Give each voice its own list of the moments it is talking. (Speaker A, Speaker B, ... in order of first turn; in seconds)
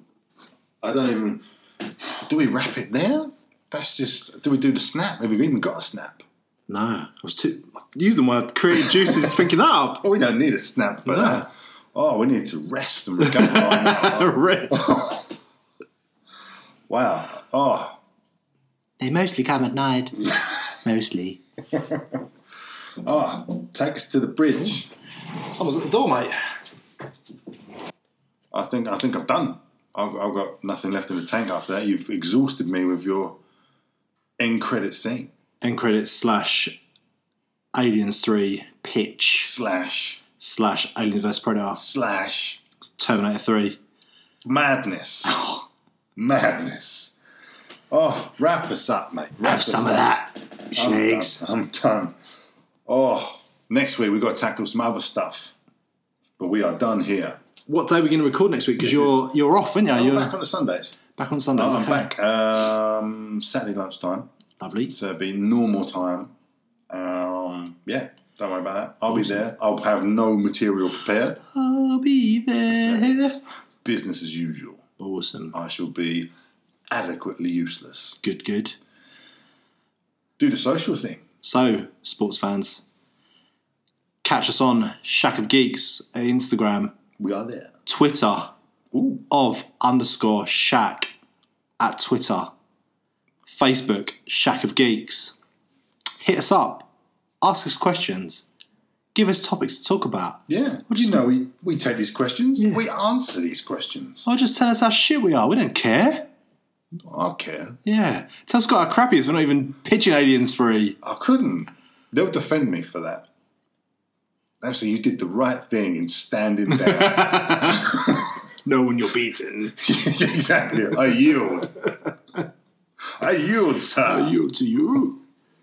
Speaker A: 0.8-6.2, 9.0-9.4, 10.0-15.3, 16.9-18.0, 21.7-22.2, 23.0-24.9, 28.5-33.4, 34.4-35.3, 39.4-40.2, 41.8-42.6, 44.5-45.5, 46.2-47.1, 47.9-52.2, 52.9-55.5, 56.4-57.4, 58.8-59.3, 59.9-61.0, 61.5-64.3, 64.9-66.3, 66.9-71.4, 72.7-74.9, 75.5-76.3, 76.9-78.2, 80.4-81.2, 87.2-87.8, 88.9-89.2, 100.5-104.3, 107.0-107.8, 111.0-113.3, 114.6-118.3, 119.8-121.9, 123.1-124.3
Speaker B: 6.7-10.0, 11.1-11.5, 13.2-15.1, 19.0-21.4, 25.4-26.6, 35.6-36.8, 37.7-39.5, 40.4-41.8, 42.8-43.8, 45.2-45.6, 49.4-51.4, 57.7-60.3, 61.1-62.1, 64.6-65.0, 69.1-69.4, 71.5-73.4, 75.0-75.5, 78.2-78.8, 81.4-82.8, 84.2-87.0, 87.9-88.5, 89.3-91.1, 91.8-92.5, 93.5-95.4, 96.2-96.9, 97.4-98.5, 99.1-101.2, 104.3-106.3, 107.8-111.0, 116.7-119.8, 124.0-125.2